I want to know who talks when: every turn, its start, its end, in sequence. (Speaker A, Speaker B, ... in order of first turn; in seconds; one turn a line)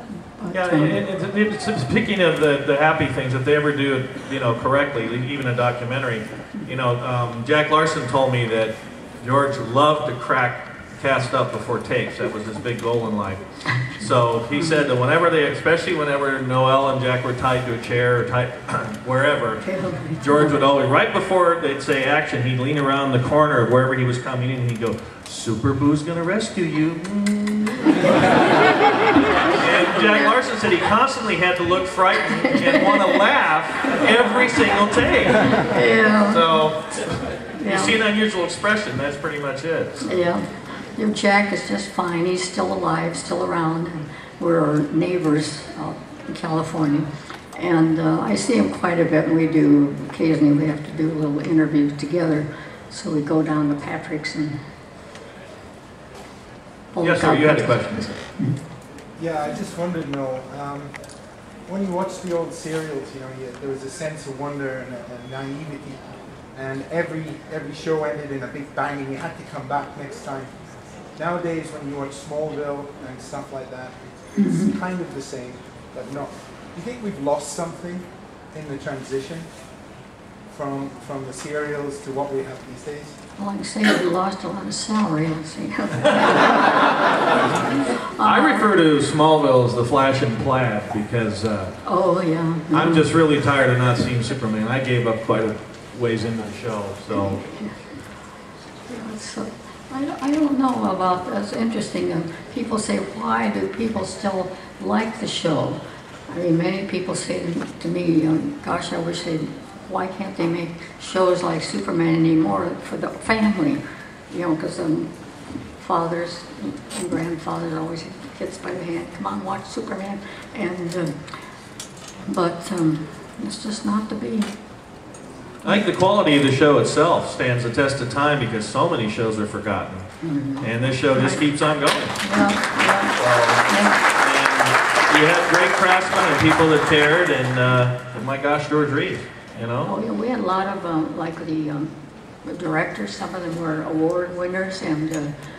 Speaker A: 0.4-0.9
Speaker B: 0.5-40.2
Speaker A: 14.6-14.8
Speaker A: 19.6-20.5
Speaker A: 28.0-28.3
Speaker A: 29.9-30.4
Speaker A: 32.4-33.2
Speaker A: 35.5-36.5
Speaker A: 37.6-38.0
Speaker A: 40.0-54.6
Speaker A: 56.9-58.6
Speaker B: 57.0-58.2
Speaker C: 59.2-60.9
Speaker C: 61.6-70.5
Speaker C: 71.2-79.5
Speaker A: 74.3-74.7
Speaker C: 80.5-83.2
Speaker A: 83.4-88.7
Speaker B: 87.9-91.8
Speaker A: 91.8-93.0
Speaker B: 92.7-97.4
Speaker A: 97.1-97.8
Speaker A: 98.8-115.1
Speaker A: 115.7-121.3
Speaker A: 122.2-124.5
Speaker B: 125.6-130.1
Speaker A: 130.2-131.4
Speaker B: 130.6-132.3
Speaker A: 132.2-134.0
Speaker B: 133.1-139.9
Speaker A: 139.8-141.9
Speaker A: 142.4-145.3